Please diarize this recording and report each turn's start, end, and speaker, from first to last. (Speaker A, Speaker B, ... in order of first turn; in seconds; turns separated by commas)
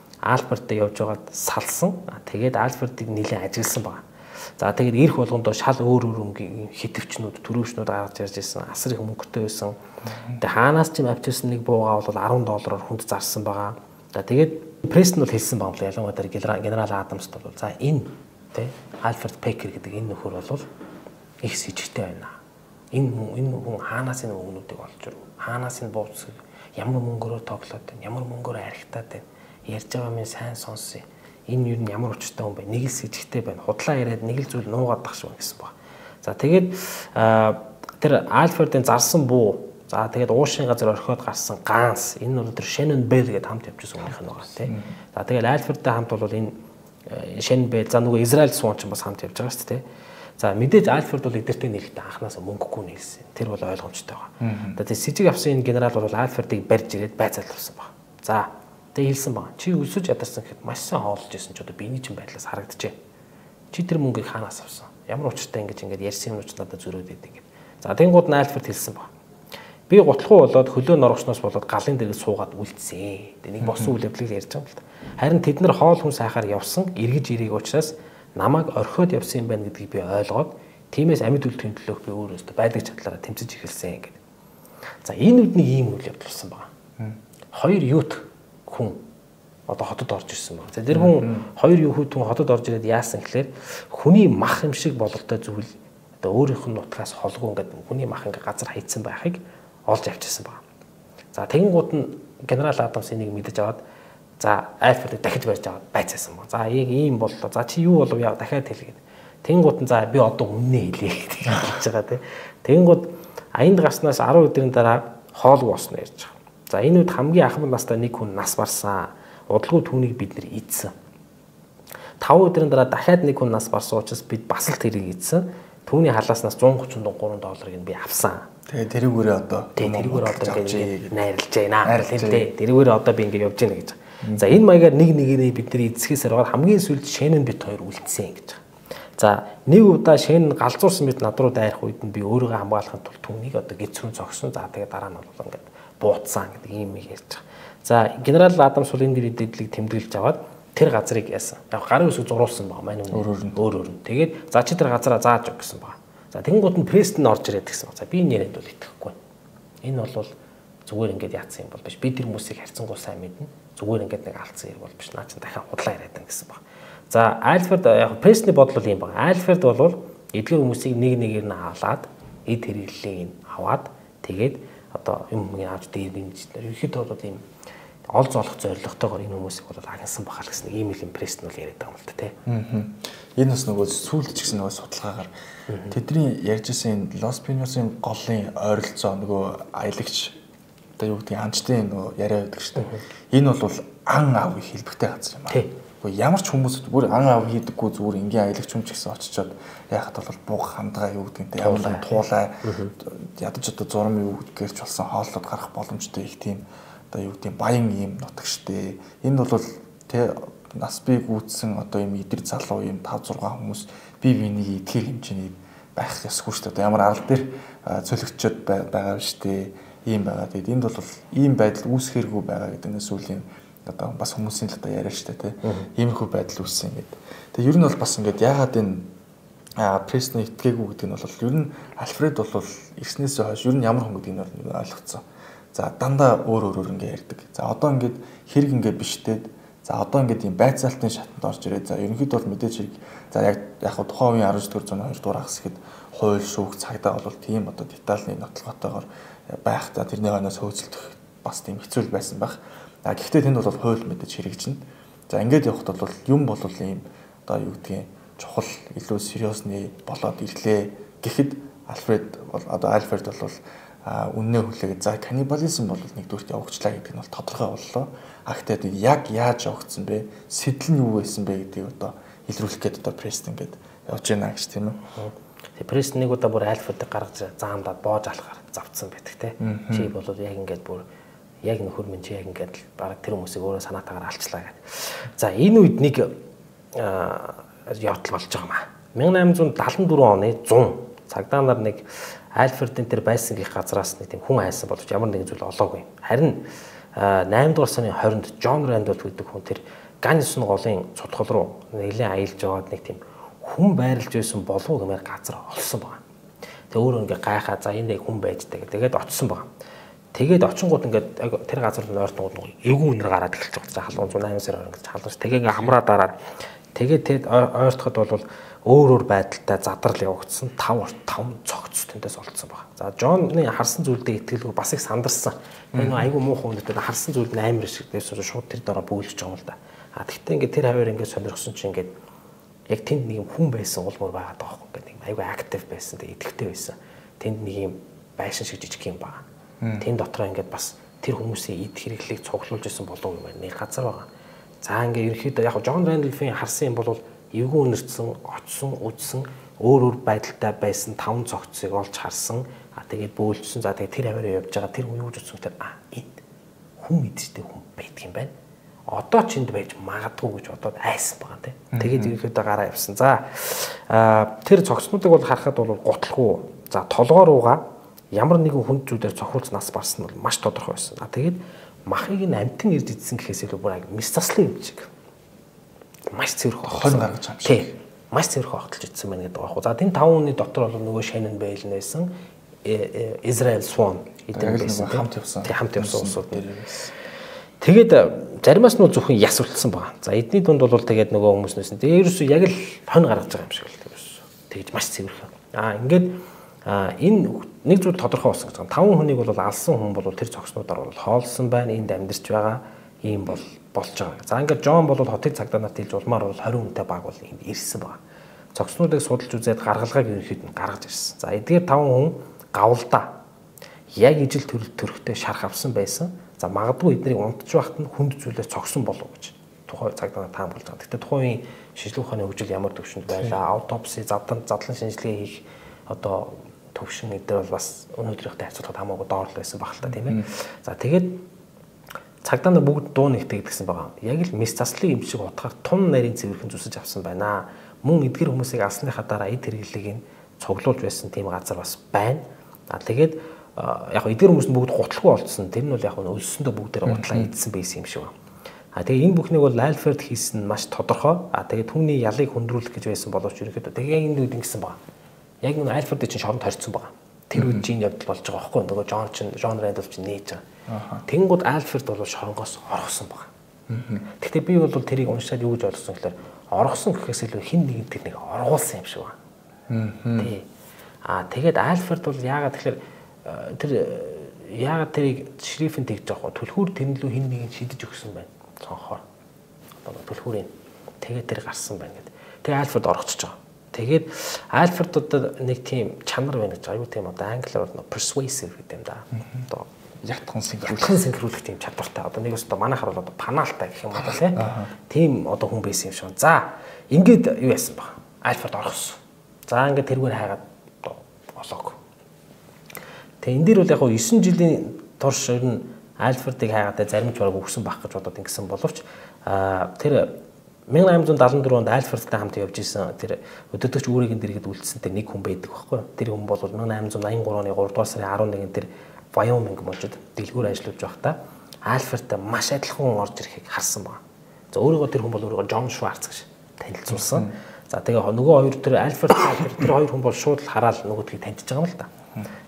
Speaker A: 0.2-4.0, Speaker A: 4.6-9.8, Speaker B: 10.1-10.4, Speaker A: 10.4-20.7, Speaker A: 21.4-22.4, Speaker A: 22.9-46.5, Speaker B: 44.7-44.9, Speaker A: 47.1-49.8, Speaker A: 50.4-63.0, Speaker B: 54.4-54.8, Speaker A: 63.7-69.1, Speaker A: 69.9-84.2, Speaker B: 73.6-73.9, Speaker A: 85.0-86.7, Speaker A: 87.5-89.0, Speaker A: 89.7-100.6, Speaker B: 90.9-91.5, Speaker A: 101.3-103.8, Speaker A: 104.4-120.9, Speaker A: 122.2-128.5, Speaker B: 128.7-131.1, Speaker A: 129.8-138.6, Speaker B: 131.8-132.5, Speaker B: 134.2-134.6, Speaker A: 139.2-159.2, Speaker B: 153.1-153.6, Speaker A: 159.8-160.3, Speaker A: 160.9-177.4, Speaker A: 178.1-182.4, Speaker B: 182.5-185.3, Speaker A: 185.7-186.0, Speaker B: 185.9-190.4, Speaker B: 191.0-229.1, Speaker A: 192.8-193.0, Speaker A: 201.6-202.9, Speaker A: 225.6-225.9, Speaker B: 229.8-275.0, Speaker A: 275.1-281.1, Speaker B: 279.6-280.1, Speaker A: 281.6-286.4, Speaker A: 286.9-306.2, Speaker A: 306.9-309.7, Speaker A: 310.3-316.4, Speaker A: 316.9-332.1, Speaker B: 325.9-326.2, Speaker A: 332.9-339.4, Speaker B: 339.8-340.1, Speaker A: 340.0-344.3, Speaker A: 344.8-356.4, Speaker A: 357.0-358.5, Speaker A: 359.1-375.1, Speaker B: 361.9-362.3, Speaker A: 376.3-382.3, Speaker B: 376.8-377.9, Speaker A: 382.9-386.6, Speaker B: 384.5-387.1, Speaker A: 387.8-408.2, Speaker A: 408.8-413.4, Speaker A: 414.2-431.4, Speaker B: 423.3-423.6, Speaker B: 430.1-430.5, Speaker A: 432.4-448.3, Speaker B: 447.1-447.5, Speaker A: 448.9-455.0, Speaker A: 455.6-460.6, Speaker B: 457.6-457.9, Speaker B: 460.9-461.2, Speaker A: 461.3-463.5, Speaker B: 463.9-464.3, Speaker A: 464.4-469.4, Speaker B: 469.9-470.5, Speaker A: 470.4-470.6, Speaker A: 471.3-479.2, Speaker A: 480.1-489.9, Speaker B: 489.3-489.7, Speaker B: 490.2-491.3, Speaker A: 490.9-502.0, Speaker B: 494.1-494.9, Speaker A: 503.4-510.4, Speaker A: 510.9-524.2, Speaker A: 524.7-532.1, Speaker B: 527.1-527.5